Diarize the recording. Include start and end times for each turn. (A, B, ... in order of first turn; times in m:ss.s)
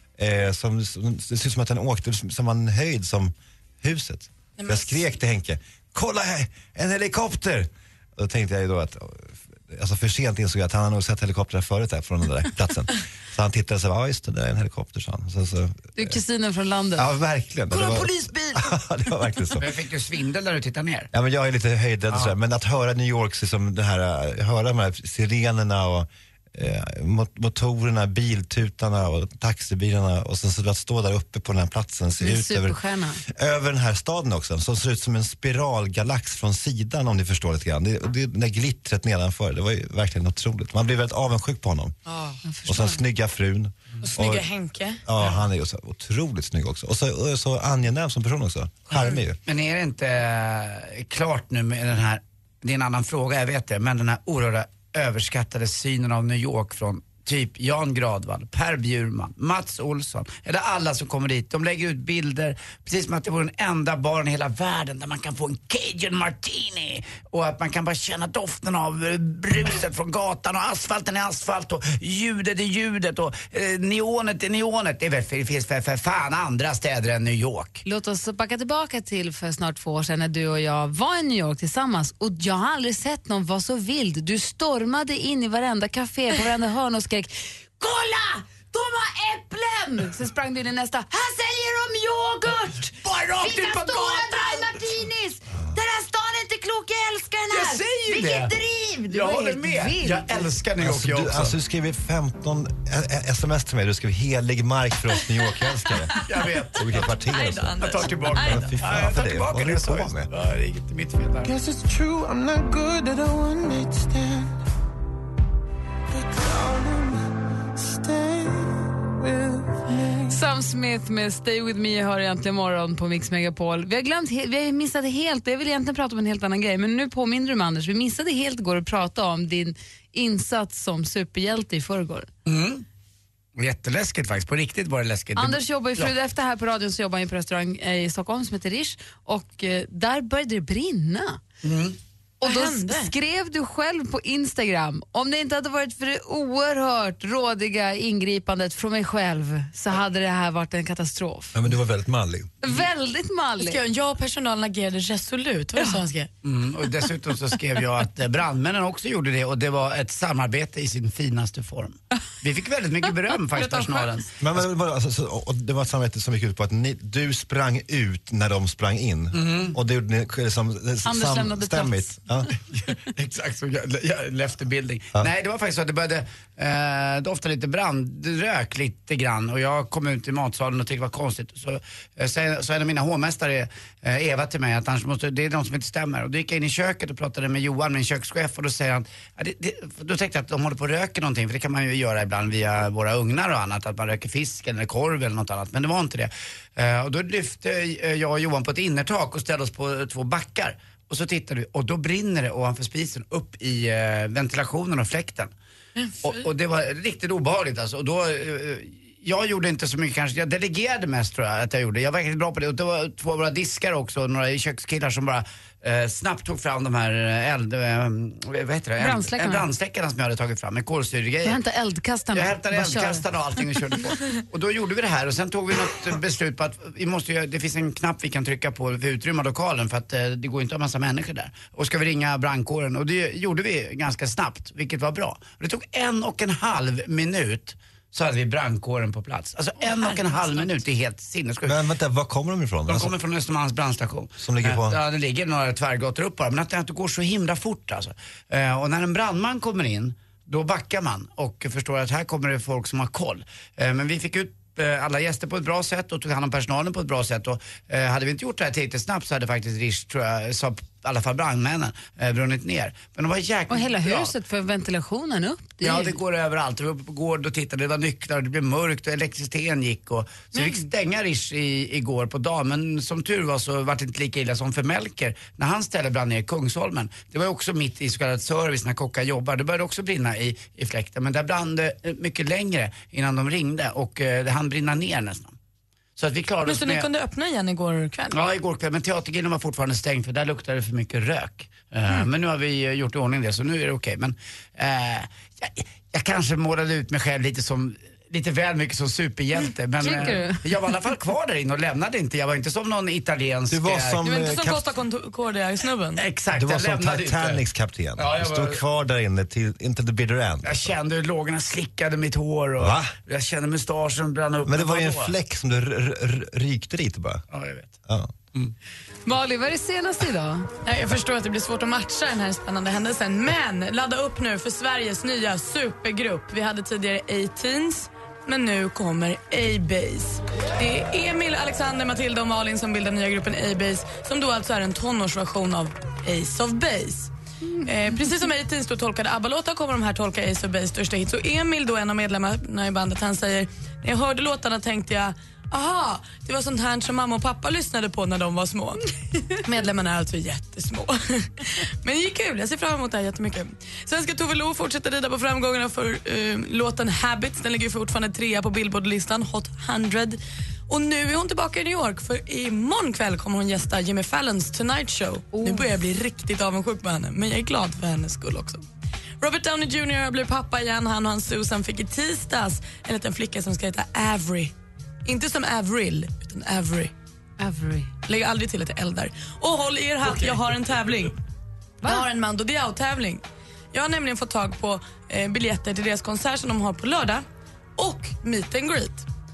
0:00.2-0:16.2 A
0:04.6-0:05.0 B
0:16.0-0:17.1 C
0:17.0-0:19.7 A
0:17.7-0:18.6 C
0:19.6-0:21.1 D
0:21.1-0:42.0 A
0:32.2-0:33.2 C
0:42.1-0:42.4 B
0:42.4-0:43.0 C
0:42.7-0:44.4 A
0:44.0-0:45.4 B
0:45.0-0:49.4 A
0:48.9-0:49.2 B
0:49.5-1:17.8 D
1:17.8-1:40.6 C
1:33.0-1:34.9 D
1:37.5-1:38.5 D
1:39.1-1:41.6 D
1:40.8-1:46.1 A
1:46.2-1:46.9 D
1:46.8-1:50.3 A
1:46.9-1:48.8 B
1:47.8-1:51.5 D
1:51.4-1:54.4 E
1:56.2-1:57.2 E
1:58.0-1:58.5 E
1:59.3-1:59.8 E
2:00.3-2:12.3 C
2:12.5-2:12.8 D
2:13.6-2:16.1 D
2:15.4-2:21.4 C
2:21.6-2:22.0 D
2:22.4-2:31.6 C
2:22.4-2:23.1 B
2:31.5-2:32.5 A
2:32.6-2:33.8 C
2:33.6-2:36.3 B
2:36.4-2:44.3 D
2:43.5-2:44.1 B
2:44.4-2:52.5 A
2:49.3-2:49.8 D
2:51.0-2:52.2 C
2:52.7-3:25.5 D
3:26.0-3:26.5 B
3:26.2-3:41.6 D
3:39.0-3:39.7 C
3:41.4-3:43.2 C
3:42.3-4:01.8 D
3:59.8-4:00.7 B
4:01.7-4:03.1 A
4:02.9-4:24.3 D
4:04.4-4:05.0 A
4:23.7-4:26.1 C
4:25.8-4:45.5 D
4:30.5-4:30.9 B
4:46.2-4:47.1 D
4:46.6-4:48.4 B
4:48.3-5:04.2 D
5:00.0-5:00.6 C
5:03.7-5:04.9 A
5:04.2-5:06.2 B
5:06.2-5:07.6 D
5:06.5-5:10.9 A
5:08.2-5:08.8 D
5:10.6-5:15.3 D
5:12.8-5:13.1 A
5:14.6-5:17.4 A
5:17.5-5:18.0 D
5:18.1-5:18.3 A
5:19.2-5:20.7 C
5:20.8-5:37.3 B
5:37.8-6:08.8 B
6:05.5-6:05.9 C
6:09.4-6:14.7 B
6:15.2-6:17.1 B
6:17.6-6:18.1 C
6:18.2-6:21.4 B
6:22.0-6:27.4 B
6:28.0-6:29.2 B